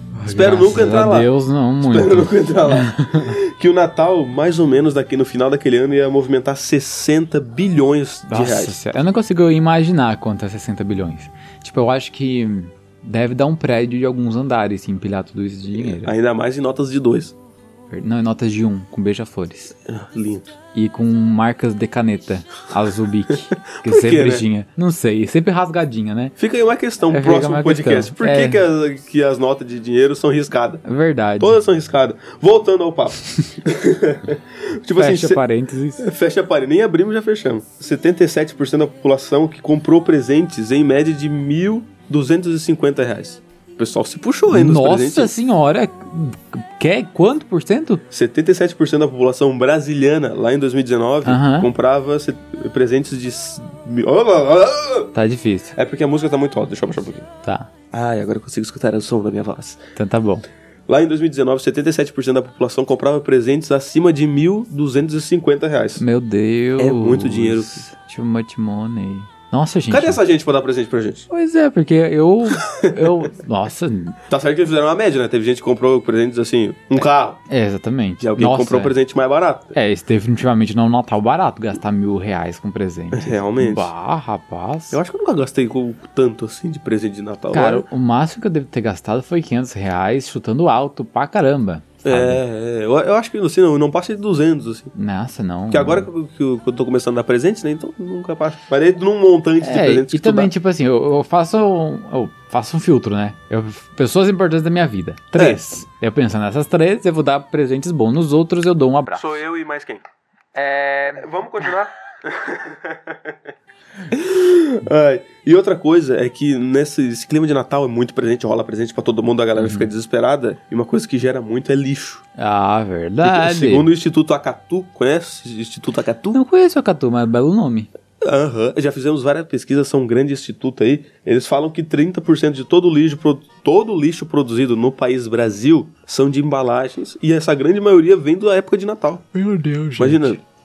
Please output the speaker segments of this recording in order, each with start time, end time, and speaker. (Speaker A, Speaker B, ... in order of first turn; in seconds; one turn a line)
Speaker A: 0.1-3.4
Speaker B: 0.3-1.3
Speaker B: 1.8-8.8
Speaker A: 8.3-16.1
Speaker B: 15.8-17.3
Speaker A: 17.9-19.7
Speaker B: 19.9-20.5
Speaker A: 20.7-26.3
Speaker B: 23.8-24.4
Speaker B: 26.4-30.8
Speaker A: 27.1-28.6
Speaker A: 30.8-31.6
Speaker B: 31.4-35.4
Speaker A: 35.0-36.1
Speaker B: 36.0-45.3
Speaker A: 44.5-48.0
Speaker B: 48.1-55.1
Speaker A: 51.2-51.7
Speaker A: 55.1-55.7
Speaker B: 55.7-57.3
Speaker A: 57.4-57.7
Speaker B: 57.9-59.8
Speaker A: 60.0-60.4
Speaker B: 60.9-66.0
Speaker A: 66.0-70.2
Speaker B: 66.8-67.8
Speaker B: 69.9-71.3
Speaker A: 71.3-74.2
Speaker B: 72.6-73.1
Speaker B: 74.3-77.4
Speaker A: 77.5-79.0
Speaker B: 78.2-79.7
Speaker A: 79.7-85.0
Speaker B: 83.1-83.9
Speaker B: 84.9-87.8
Speaker A: 87.5-92.4
Speaker B: 92.0-94.9
Speaker A: 94.9-96.1
Speaker B: 95.7-100.5
Speaker A: 99.6-109.4
Speaker B: 105.3-105.6
Speaker B: 109.2-110.0
Speaker A: 110.5-111.3
Speaker B: 111.2-113.5
Speaker B: 114.1-122.2
Speaker A: 119.6-119.9
Speaker A: 122.4-123.9
Speaker B: 123.2-126.4
Speaker A: 126.3-127.9
Speaker B: 128.2-139.2
Speaker A: 139.3-140.4
Speaker B: 140.0-140.4